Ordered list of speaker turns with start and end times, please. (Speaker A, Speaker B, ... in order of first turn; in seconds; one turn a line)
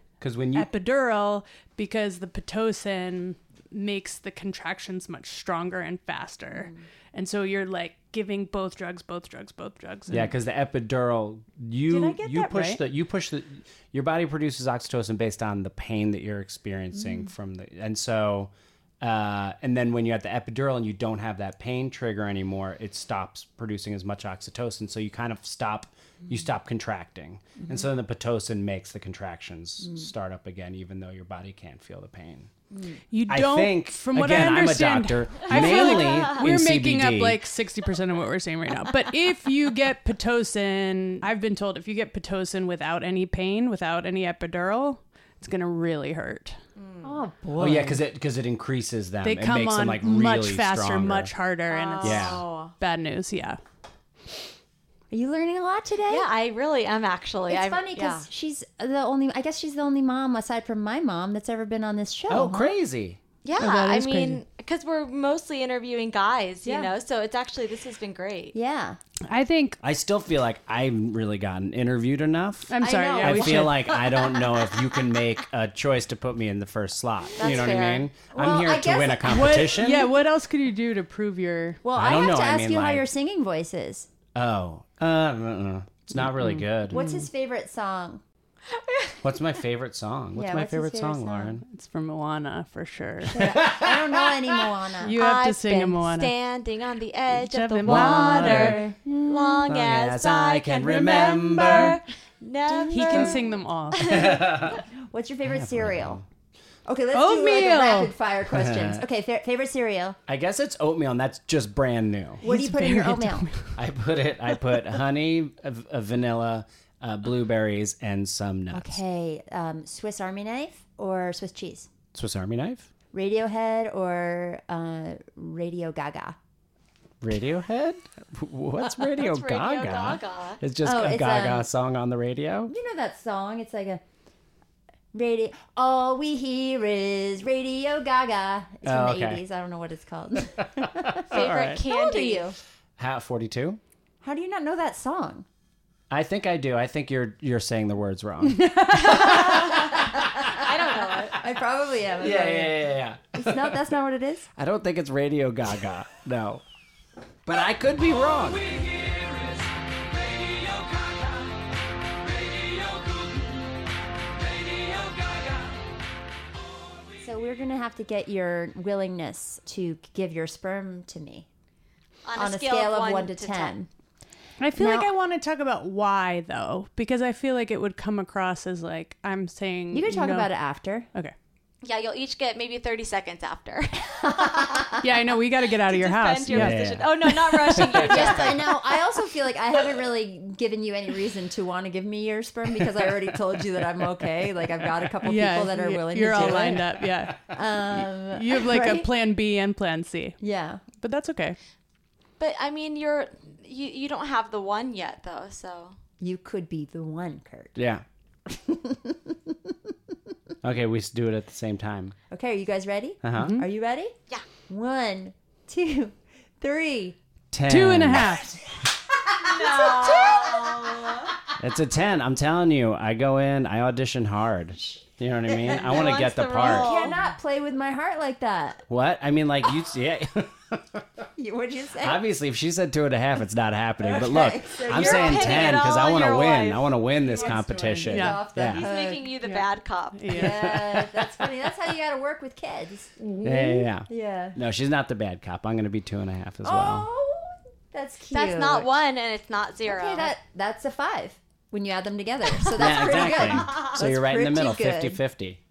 Speaker A: 0.2-0.7
Speaker B: 0.5-10.3
Speaker C: 6.5-6.8
Speaker A: 10.1-32.5
Speaker B: 11.9-12.8
Speaker C: 17.0-17.3
Speaker C: 27.6-27.9
Speaker C: 32.7-33.0
Speaker B: 33.1-46.6
Speaker A: 33.3-37.4
Speaker D: 35.5-36.4
Speaker D: 46.8-47.2
Speaker C: 47.0-48.0
Speaker A: 47.6-51.3
Speaker B: 49.2-53.6
Speaker D: 51.7-52.8
Speaker A: 52.0-52.4
Speaker C: 55.1-56.3
Speaker D: 56.1-58.3
Speaker C: 57.5-62.7
Speaker A: 62.3-63.2
Speaker D: 63.4-68.5
Speaker B: 63.6-64.4
Speaker C: 66.6-66.9
Speaker C: 68.5-69.0
Speaker B: 69.3-69.8
Speaker A: 69.8-80.1
Speaker B: 72.7-74.0
Speaker C: 72.8-74.7
Speaker D: 77.4-78.1
Speaker C: 78.3-79.8
Speaker B: 79.2-81.8
Speaker C: 81.8-84.1
Speaker A: 81.9-83.1
Speaker A: 84.3-87.1
Speaker B: 86.3-87.2
Speaker C: 86.9-88.2
Speaker D: 88.8-89.2
Speaker A: 89.2-91.6
Speaker C: 90.4-91.6
Speaker B: 91.7-93.5
Speaker C: 93.3-95.2
Speaker A: 93.4-94.1
Speaker D: 95.0-104.4
Speaker B: 95.0-96.3
Speaker B: 97.3-98.8
Speaker A: 97.9-98.8
Speaker C: 98.4-99.7
Speaker A: 99.7-102.0
Speaker C: 102.7-103.3
Speaker B: 102.9-104.1
Speaker A: 104.0-104.8
Speaker C: 104.7-106.2
Speaker A: 105.4-106.2
Speaker C: 106.9-110.2
Speaker B: 107.1-108.2
Speaker A: 108.5-109.0
Speaker A: 110.3-112.4
Speaker C: 112.4-113.5
Speaker B: 112.4-113.8
Speaker A: 113.8-119.0
Speaker C: 118.7-121.9
Speaker A: 122.1-122.9
Speaker C: 123.1-126.4
Speaker A: 127.2-132.7
Speaker D: 129.1-130.6
Speaker C: 130.8-131.7
Speaker C: 132.7-134.0
Speaker C: 135.1-142.6
Speaker A: 138.8-139.4
Speaker A: 140.8-141.8
Speaker D: 141.3-142.5
Speaker A: 143.0-143.8
Speaker C: 144.2-145.5
Speaker A: 146.1-149.7
Speaker D: 148.9-151.4
Speaker C: 151.4-152.8
Speaker A: 152.2-153.8
Speaker C: 153.3-154.5
Speaker A: 154.6-156.6
Speaker A: 157.5-158.8
Speaker C: 167.2-171.5
Speaker D: 172.3-173.8
Speaker C: 172.3-173.9
Speaker B: 174.6-180.5
Speaker C: 174.8-175.1
Speaker C: 179.9-181.1
Speaker D: 181.8-184.8
Speaker C: 184.2-185.1
Speaker B: 185.0-186.8
Speaker D: 185.7-188.9
Speaker A: 186.5-188.5
Speaker C: 188.0-199.1
Speaker B: 195.2-200.4
Speaker A: 196.5-196.8
Speaker C: 200.4-200.8
Speaker B: 201.0-201.6
Speaker D: 202.4-206.0
Speaker C: 206.2-207.8
Speaker A: 207.8-208.0
Speaker C: 208.5-209.7
Speaker A: 210.6-212.2
Speaker C: 212.3-217.2
Speaker A: 213.2-213.6
Speaker B: 213.3-213.6
Speaker A: 217.5-218.4
Speaker B: 217.7-218.5
Speaker D: 219.4-221.3
Speaker C: 219.5-221.1
Speaker A: 221.6-226.9
Speaker C: 225.5-228.8
Speaker D: 225.7-227.2
Speaker A: 228.9-231.0
Speaker C: 231.4-232.2
Speaker A: 232.0-238.9
Speaker C: 234.0-235.8
Speaker D: 234.8-237.0
Speaker B: 237.2-238.5
Speaker C: 238.1-239.4
Speaker D: 238.7-240.4
Speaker B: 239.4-240.5
Speaker C: 240.3-244.6
Speaker A: 240.4-241.4
Speaker A: 243.4-247.1
Speaker C: 246.7-248.9
Speaker D: 248.3-250.3
Speaker C: 249.8-255.2
Speaker D: 252.6-254.0
Speaker A: 252.8-255.6